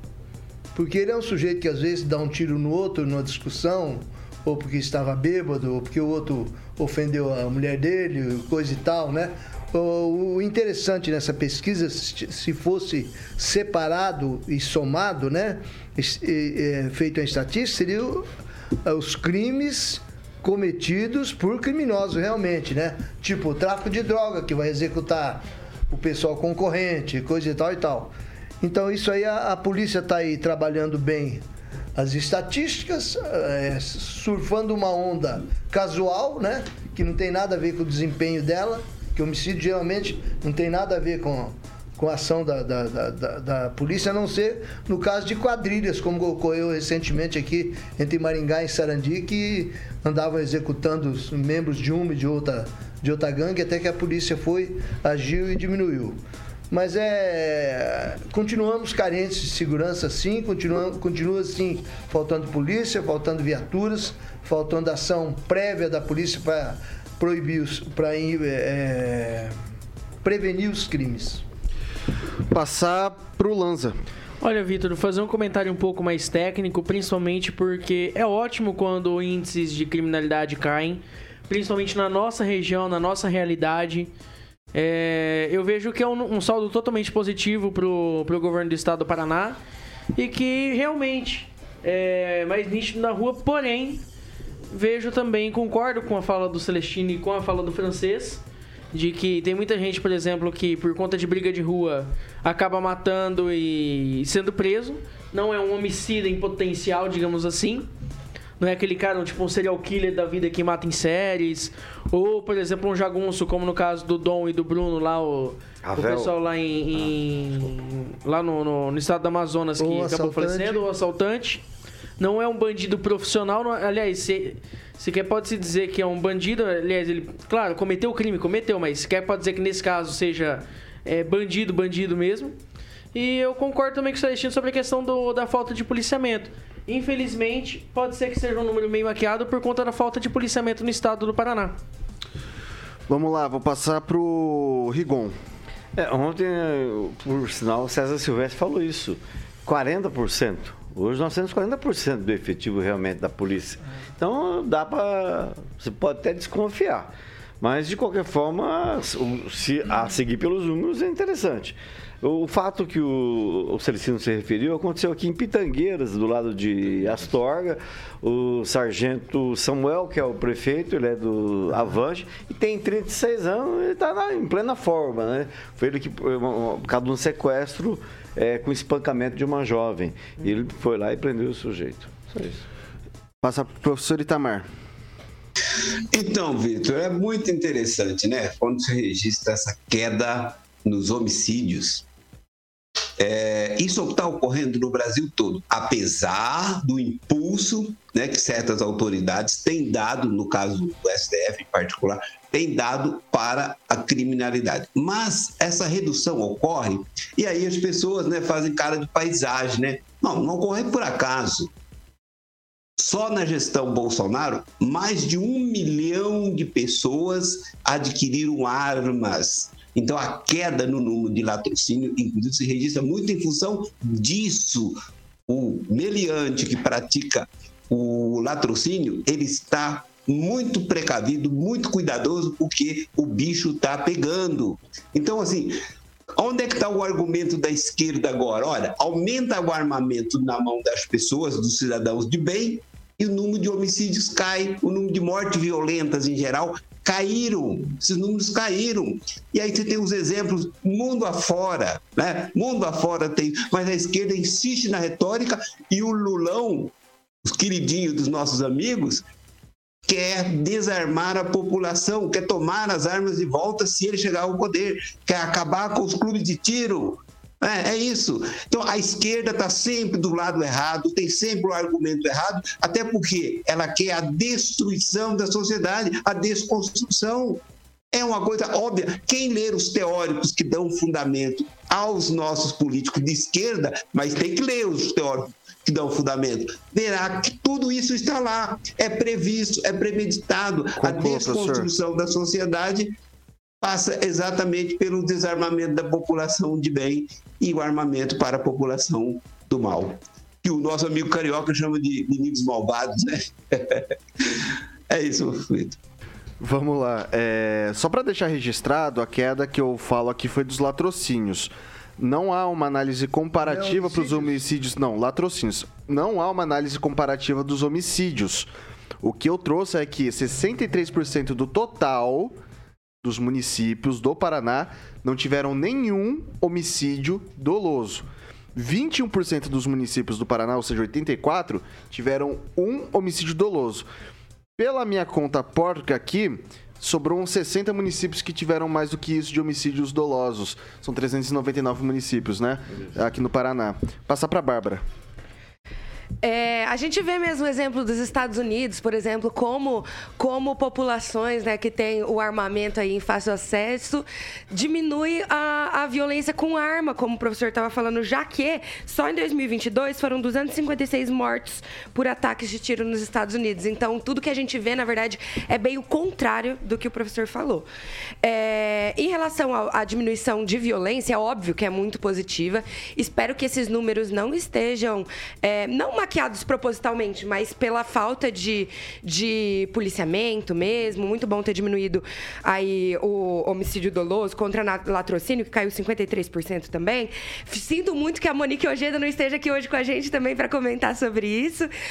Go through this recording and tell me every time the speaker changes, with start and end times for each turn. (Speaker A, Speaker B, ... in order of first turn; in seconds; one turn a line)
Speaker A: 0.7-18.2
Speaker A: 18.8-31.4
Speaker A: 31.9-56.2
Speaker A: 56.7-69.5
Speaker A: 70.2-71.4
Speaker B: 72.5-74.0
Speaker C: 74.4-84.1
Speaker C: 84.7-89.6
Speaker C: 90.2-94.0
Speaker C: 94.7-107.9
Speaker C: 108.6-121.6
Speaker D: 115.8-116.3
Speaker A: 119.8-120.8
Speaker C: 122.2-132.6
Speaker C: 133.1-141.8
Speaker B: 143.1-145.3
Speaker D: 145.9-182.6
Speaker B: 183.4-184.7
Speaker E: 186.1-192.0
Speaker E: 193.2-211.7
Speaker E: 213.0-224.9
Speaker E: 225.5-235.8
Speaker E: 236.3-256.9
Speaker E: 257.4-259.2
Speaker E: 260.1-293.1
Speaker B: 291.0-291.9
Speaker E: 293.8-306.0
Speaker B: 306.6-318.7
Speaker A: 313.6-314.6
Speaker B: 319.2-322.6
Speaker B: 323.2-334.1
Speaker B: 334.8-345.0
Speaker F: 346.4-367.9
Speaker F: 368.4-391.9